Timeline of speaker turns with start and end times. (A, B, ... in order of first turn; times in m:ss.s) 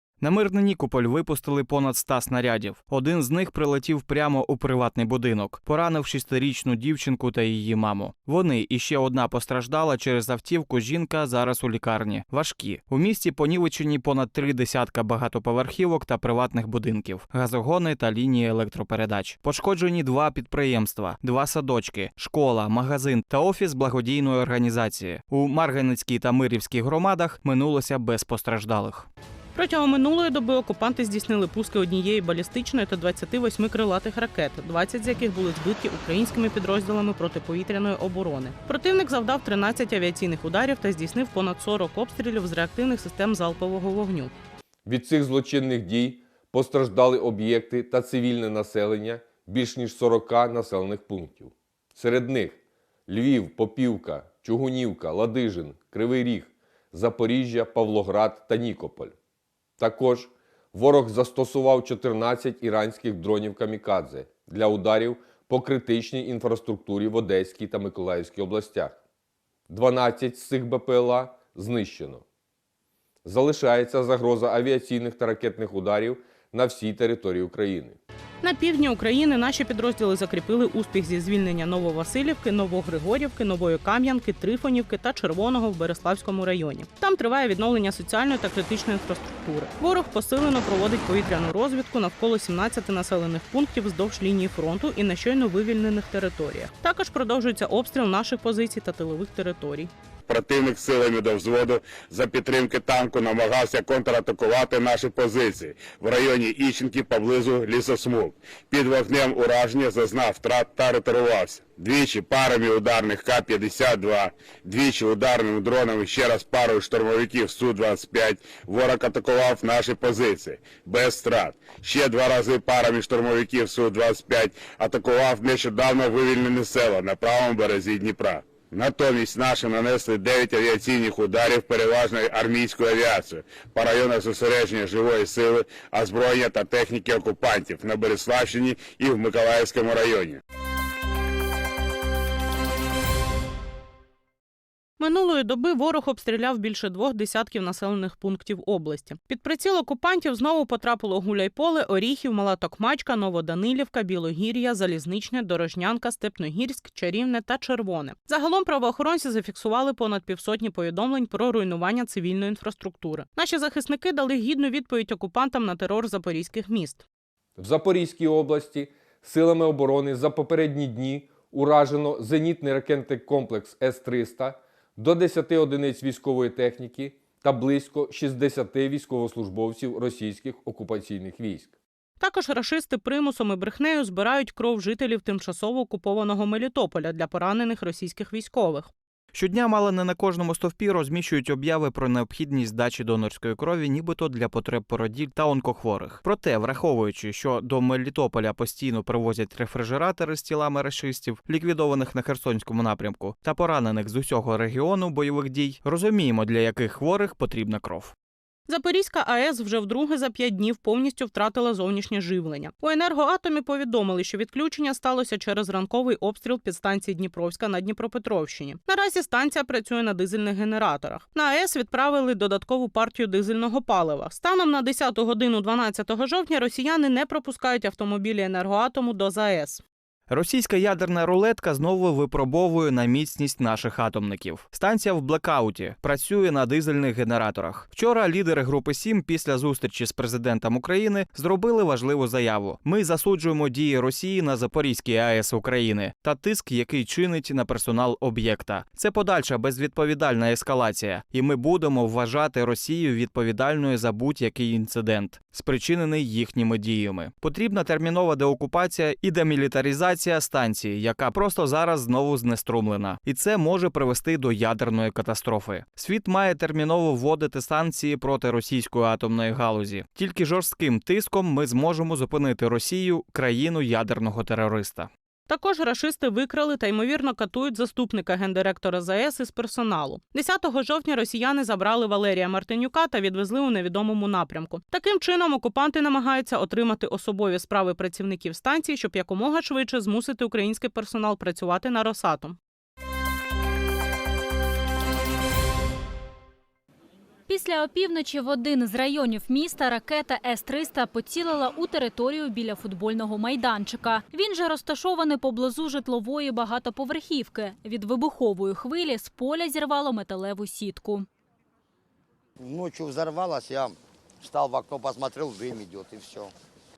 0:00.2-0:29.1 A
0:29.6-0:44.3 B
0:44.9-0:59.1 C
0:59.8-1:09.0 C
1:09.7-1:12.2 C
1:13.2-1:18.0 C
1:18.4-1:39.9 B
1:40.3-2:20.4 D
2:25.0-2:47.0 B
2:47.6-3:01.7 C
3:02.2-3:08.9 B
3:09.3-3:28.1 A
3:28.7-3:49.8 B
3:50.3-4:35.1 A
4:35.5-4:52.6 B
4:57.5-5:11.3 E
5:12.6-5:16.5 F